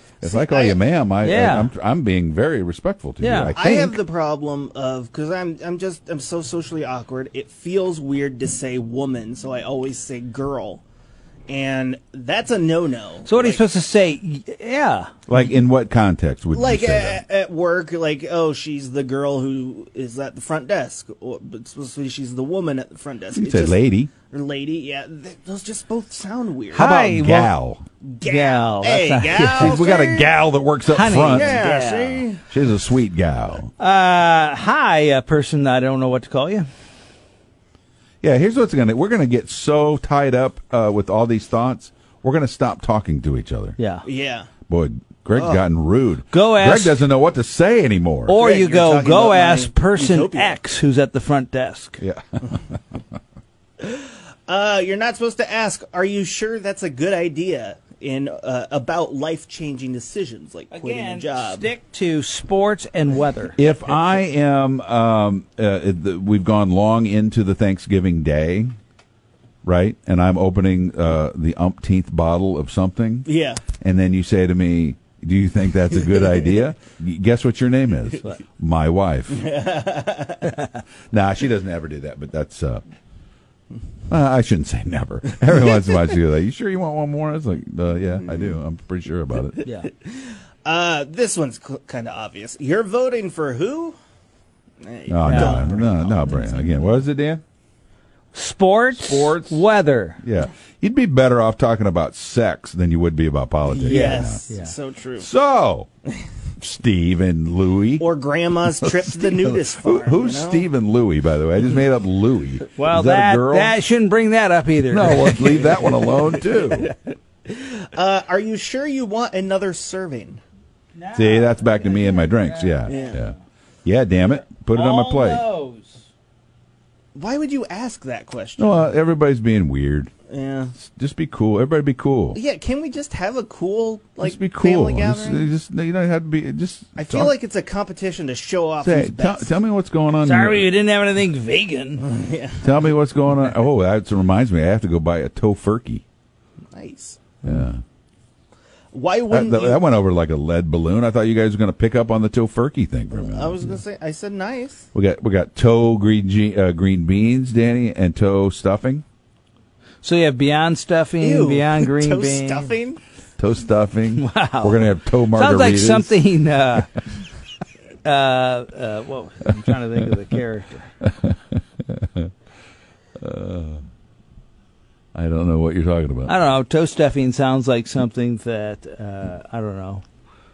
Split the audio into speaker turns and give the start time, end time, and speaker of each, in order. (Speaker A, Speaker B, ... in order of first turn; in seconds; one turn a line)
Speaker A: 0.2-0.8
Speaker B: 0.2-4.0
Speaker C: 1.2-1.7
Speaker C: 3.2-3.6
Speaker A: 3.5-10.8
Speaker A: 11.5-13.6
Speaker C: 13.2-15.1
Speaker B: 15.3-17.2
Speaker A: 16.5-26.9
Speaker B: 23.4-24.1
Speaker C: 26.7-27.5
Speaker B: 26.7-27.8
Speaker A: 28.0-30.3
Speaker C: 28.2-29.9
Speaker B: 29.5-31.6
Speaker C: 30.9-32.2
Speaker A: 31.1-32.4
Speaker B: 32.5-33.7
Speaker C: 33.8-36.7
Speaker B: 38.2-43.8
Speaker C: 43.8-44.0
Speaker A: 44.0-44.5
Speaker B: 44.7-48.4
Speaker A: 45.3-45.7
Speaker C: 46.3-47.0
Speaker C: 48.3-52.0
Speaker A: 48.3-50.6
Speaker B: 52.0-52.6
Speaker A: 53.8-61.7
Speaker C: 60.7-63.6
Speaker B: 63.6-68.7
Speaker B: 69.6-73.3
Speaker A: 73.2-73.6
Speaker B: 73.8-79.4
Speaker A: 79.3-80.6
Speaker B: 81.1-82.8
Speaker B: 84.1-89.6
Speaker C: 89.6-89.9
Speaker A: 90.0-94.0
Speaker A: 94.8-96.5
Speaker B: 95.1-97.4
Speaker C: 95.2-95.8
Speaker C: 98.3-100.2
Speaker B: 98.9-99.6
Speaker B: 100.2-104.4
Speaker A: 103.7-105.3
Speaker C: 103.8-104.7
Speaker B: 105.2-105.9
Speaker B: 106.6-108.0
Speaker A: 108.0-110.7
Speaker B: 108.8-113.8
Speaker C: 112.8-116.0
Speaker B: 114.8-116.9
Speaker A: 116.3-117.0
Speaker A: 117.5-120.4
Speaker C: 121.0-123.3
Speaker B: 121.1-123.3
Speaker A: 122.9-123.2
Speaker B: 123.8-125.5
Speaker C: 124.3-126.1
Speaker A: 127.1-128.9
Speaker B: 128.6-130.1
Speaker A: 130.3-130.7
Speaker B: 130.8-132.4
Speaker A: 132.3-135.5
Speaker B: 134.2-137.3
Speaker A: 137.0-139.5
Speaker B: 138.8-140.7
Speaker C: 140.2-142.0
Speaker A: 142.0-142.9
Speaker B: 142.6-146.0
Speaker A: 146.7-147.2
Speaker B: 147.4-147.8
Speaker A: 148.9-149.8
Speaker B: 149.3-153.7
Speaker A: 153.1-154.8
Speaker B: 154.9-159.0
Speaker C: 160.0-162.7
Speaker A: 161.2-163.0
Speaker B: 163.4-166.2
Speaker C: 164.1-167.1
Speaker C: 168.0-170.9
Speaker B: 171.1-171.3
Speaker B: 171.9-172.3
Speaker B: 173.2-173.8
Speaker B: 175.1-176.4
Speaker C: 176.2-180.0